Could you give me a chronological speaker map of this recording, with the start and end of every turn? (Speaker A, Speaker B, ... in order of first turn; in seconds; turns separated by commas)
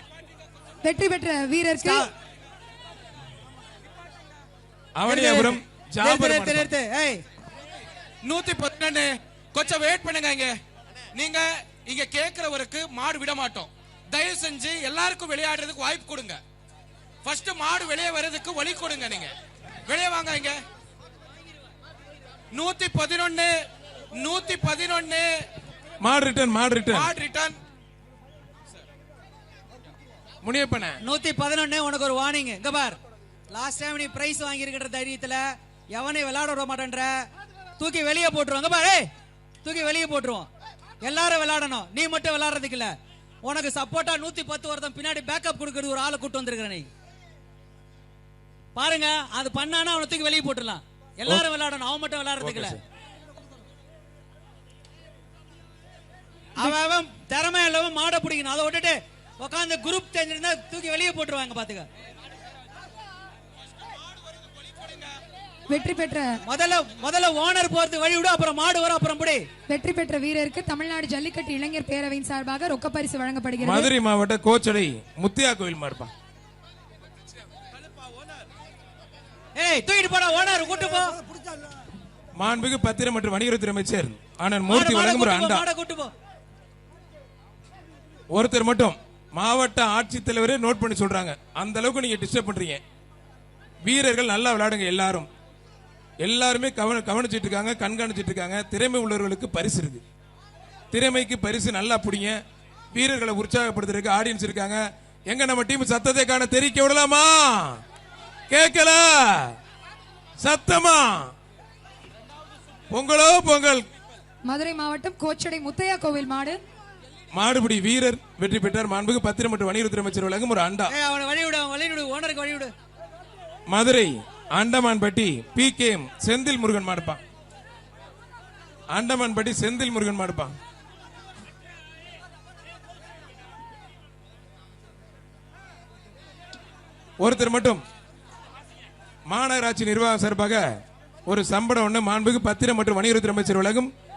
Speaker A: 0.8-2.1, Speaker B: 1.8-2.1, Speaker C: 5.0-6.7, Speaker B: 5.1-7.2, Speaker D: 8.2-10.6, Speaker D: 11.1-16.4, Speaker D: 17.2-19.3, Speaker D: 19.9-20.6, Speaker D: 22.5-25.4, Speaker C: 26.0-27.1, Speaker D: 26.9-27.6, Speaker C: 30.4-31.0, Speaker B: 31.0-33.0, Speaker B: 33.5-37.1, Speaker B: 37.8-39.1, Speaker B: 39.6-40.5, Speaker B: 41.0-42.9, Speaker B: 43.4-46.9, Speaker B: 48.7-52.8, Speaker C: 52.4-52.8, Speaker B: 56.5-61.9, Speaker A: 65.7-66.4, Speaker B: 66.5-69.4, Speaker A: 69.7-73.9, Speaker C: 73.6-76.1, Speaker B: 79.5-81.2, Speaker C: 82.3-85.7, Speaker B: 84.7-86.1, Speaker C: 88.3-92.8, Speaker C: 93.8-95.3, Speaker C: 96.2-100.0, Speaker C: 100.9-102.4, Speaker C: 102.9-107.8, Speaker C: 108.5-109.5, Speaker C: 110.4-111.3, Speaker C: 112.9-113.8, Speaker A: 114.5-116.6, Speaker C: 117.3-120.9, Speaker B: 120.9-122.7, Speaker C: 123.7-127.2, Speaker C: 128.9-130.5, Speaker C: 137.2-137.8, Speaker C: 139.3-140.6, Speaker C: 141.3-143.9